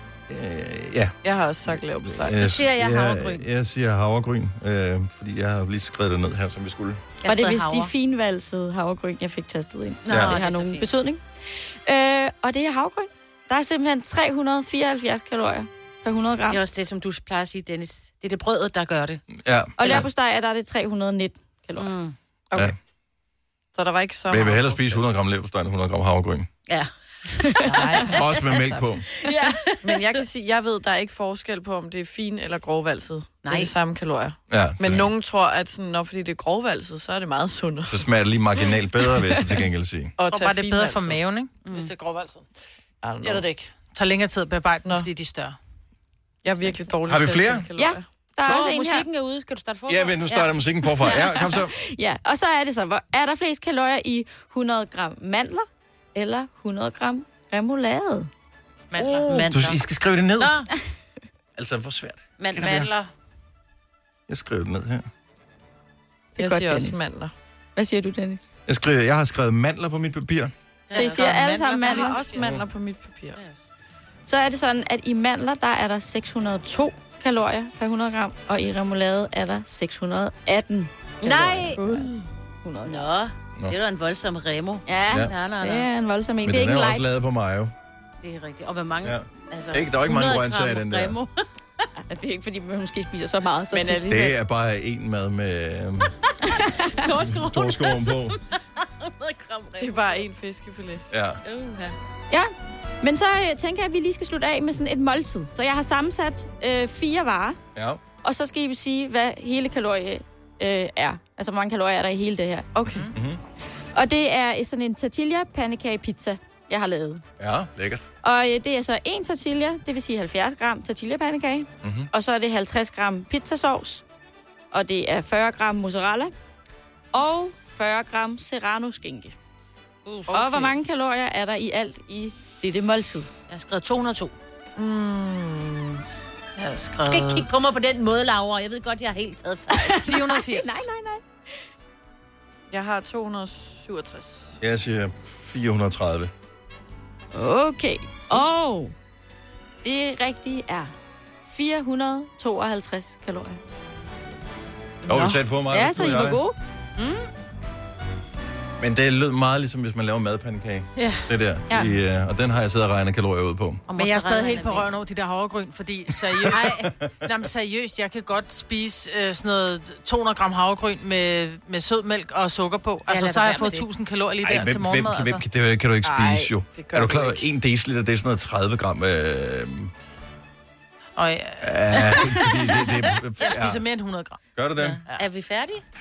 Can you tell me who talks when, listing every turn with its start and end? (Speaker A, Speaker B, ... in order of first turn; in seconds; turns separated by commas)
Speaker A: 0.3-1.1, Speaker B: 1.2-2.4, Speaker A: 1.7-7.0, Speaker C: 2.3-3.5, Speaker C: 7.2-7.9, Speaker D: 7.2-16.6, Speaker C: 10.0-10.9, Speaker A: 10.1-10.4, Speaker C: 16.5-19.2, Speaker A: 19.4-20.1, Speaker D: 19.8-21.9, Speaker C: 21.8-22.1, Speaker B: 23.7-25.0, Speaker A: 24.3-26.5, Speaker C: 26.7-28.6, Speaker B: 27.6-28.2, Speaker A: 28.1-29.1, Speaker C: 29.2-30.0, Speaker B: 29.8-38.0, Speaker C: 33.4-33.7, Speaker A: 34.5-35.1, Speaker A: 37.9-40.1, Speaker B: 39.2-39.6, Speaker B: 40.2-41.2, Speaker E: 40.3-42.5, Speaker C: 41.6-41.9, Speaker B: 43.0-43.5, Speaker E: 43.2-45.6, Speaker B: 46.4-48.0, Speaker A: 47.1-47.7, Speaker D: 47.8-49.0, Speaker C: 48.4-50.5, Speaker A: 49.9-51.8, Speaker D: 51.0-58.3, Speaker E: 58.9-59.3, Speaker C: 59.0-59.8, Speaker A: 59.3-60.6, Speaker C: 60.4-60.7, Speaker A: 61.5-62.9, Speaker C: 62.4-62.9, Speaker E: 62.6-63.1, Speaker A: 64.3-65.1, Speaker B: 66.3-67.3, Speaker D: 66.4-67.0, Speaker D: 67.8-68.4, Speaker A: 68.7-70.5, Speaker C: 70.9-71.7, Speaker E: 70.9-72.2, Speaker D: 70.9-72.2, Speaker B: 71.8-73.4, Speaker A: 72.3-72.6, Speaker C: 73.3-73.6, Speaker D: 74.2-82.0, Speaker C: 81.2-81.8, Speaker B: 81.8-82.2, Speaker D: 82.6-83.1, Speaker C: 82.9-85.9, Speaker D: 84.9-87.0, Speaker A: 86.4-87.7, Speaker C: 88.2-91.4, Speaker A: 89.0-91.2, Speaker D: 92.1-94.1, Speaker B: 93.7-94.3, Speaker A: 94.1-96.1, Speaker D: 96.5-97.0, Speaker C: 96.8-100.2, Speaker A: 97.2-98.4, Speaker B: 99.8-101.0, Speaker A: 101.1-101.4, Speaker C: 101.4-102.0, Speaker D: 103.0-107.6, Speaker A: 107.7-108.0, Speaker D: 108.2-112.7, Speaker B: 112.7-113.1, Speaker A: 113.0-113.4, Speaker D: 113.9-117.2, Speaker A: 117.4-118.0, Speaker D: 118.2-124.0, Speaker A: 121.8-122.1, Speaker D: 124.7-126.3, Speaker D: 127.1-129.3, Speaker B: 130.3-130.7, Speaker D: 130.3-133.3, Speaker C: 133.5-134.3, Speaker B: 134.8-136.0, Speaker E: 136.6-137.5, Speaker C: 137.1-140.1, Speaker D: 139.7-141.2, Speaker E: 140.0-140.8, Speaker B: 142.7-144.6, Speaker A: 144.6-146.3, Speaker D: 147.3-148.9, Speaker D: 149.8-150.9, Speaker D: 151.4-153.6, Speaker A: 155.1-156.4, Speaker D: 155.7-156.6, Speaker C: 157.0-157.3, Speaker A: 158.8-163.8, Speaker C: 161.0-161.2, Speaker D: 161.7-162.0, Speaker C: 163.9-164.9, Speaker E: 164.0-175.4, Speaker A: 166.3-167.1, Speaker C: 166.4-166.9, Speaker C: 173.1-173.9, Speaker A: 174.4-179.9, Speaker B: 176.0-177.5, Speaker E: 181.2-184.4, Speaker A: 181.6-183.8, Speaker A: 184.6-185.0, Speaker C: 184.8-185.8